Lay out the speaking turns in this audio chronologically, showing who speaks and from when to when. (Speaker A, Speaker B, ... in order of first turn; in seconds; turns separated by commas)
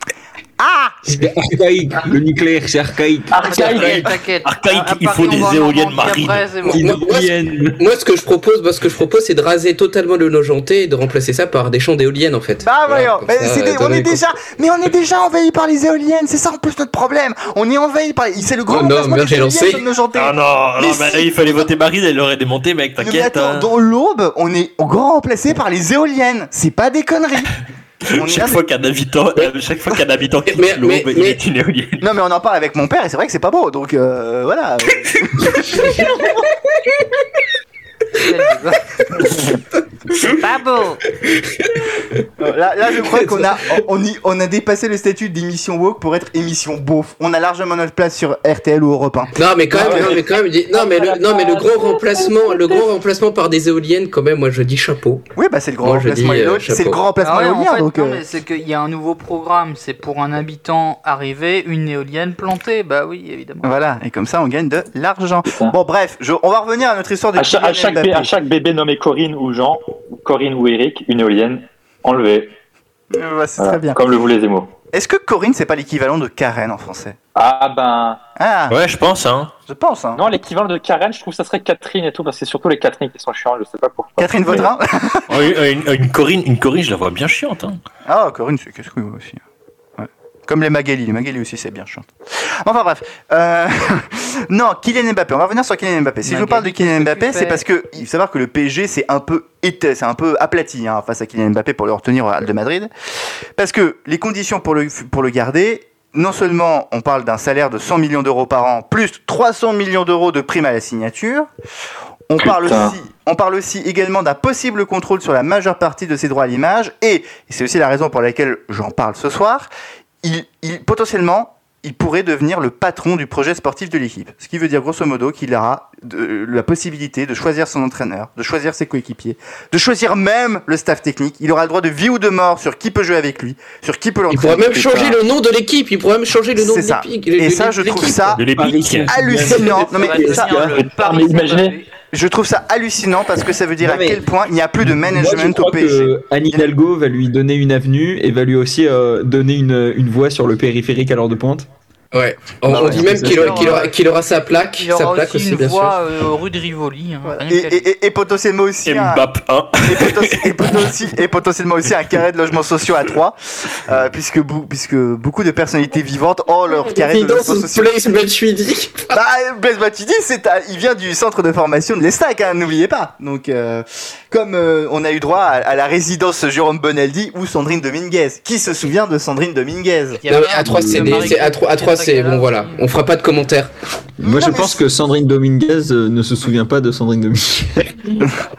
Speaker A: 0.6-1.0, Speaker B: 1.1-3.9, Speaker C: 3.3-4.1, Speaker D: 3.4-6.9, Speaker E: 4.4-6.5, Speaker B: 6.6-7.8, Speaker F: 6.8-14.2, Speaker A: 12.6-21.7, Speaker F: 18.7-19.8, Speaker E: 20.1-23.7, Speaker A: 23.0-27.5, Speaker E: 28.1-32.0, Speaker A: 28.1-28.6, Speaker F: 30.5-31.4, Speaker A: 32.0-36.0, Speaker F: 36.0-36.3, Speaker D: 38.2-38.8, Speaker D: 40.2-41.0, Speaker A: 42.4-50.2, Speaker F: 49.3-55.2, Speaker C: 49.8-50.1, Speaker C: 50.8-51.9, Speaker A: 55.4-58.2, Speaker F: 55.8-57.0, Speaker D: 57.2-63.8, Speaker A: 63.6-68.3, Speaker C: 65.5-65.7, Speaker C: 67.3-72.5, Speaker A: 73.1-74.0, Speaker C: 73.6-74.7, Speaker A: 74.9-77.2, Speaker C: 77.3-78.2, Speaker A: 78.4-78.8, Speaker E: 78.7-79.5, Speaker A: 79.7-80.2, Speaker C: 80.1-84.7, Speaker A: 84.2-85.5, Speaker E: 85.3-87.8, Speaker A: 88.0-89.4, Speaker A: 90.0-102.9, Speaker D: 96.2-97.6, Speaker A: 103.5-111.5, Speaker A: 112.3-119.7, Speaker C: 112.4-113.0, Speaker A: 120.2-135.1, Speaker F: 134.3-138.4, Speaker C: 134.8-135.2, Speaker A: 136.5-138.4, Speaker E: 138.4-139.1, Speaker B: 138.5-140.8, Speaker A: 139.1-140.5, Speaker D: 139.5-141.9, Speaker C: 140.7-141.8, Speaker A: 142.1-146.7, Speaker B: 143.8-144.2, Speaker B: 144.8-151.7, Speaker F: 152.1-156.0, Speaker A: 152.7-153.7, Speaker B: 152.7-153.8, Speaker D: 152.9-153.9, Speaker D: 154.8-157.9, Speaker A: 157.2-159.2, Speaker E: 158.8-160.8, Speaker A: 159.8-167.9, Speaker F: 166.7-169.1, Speaker A: 169.1-180.2, Speaker D: 180.2-182.8, Speaker F: 180.3-183.7, Speaker B: 180.6-181.4, Speaker B: 184.2-188.2, Speaker A: 184.2-184.8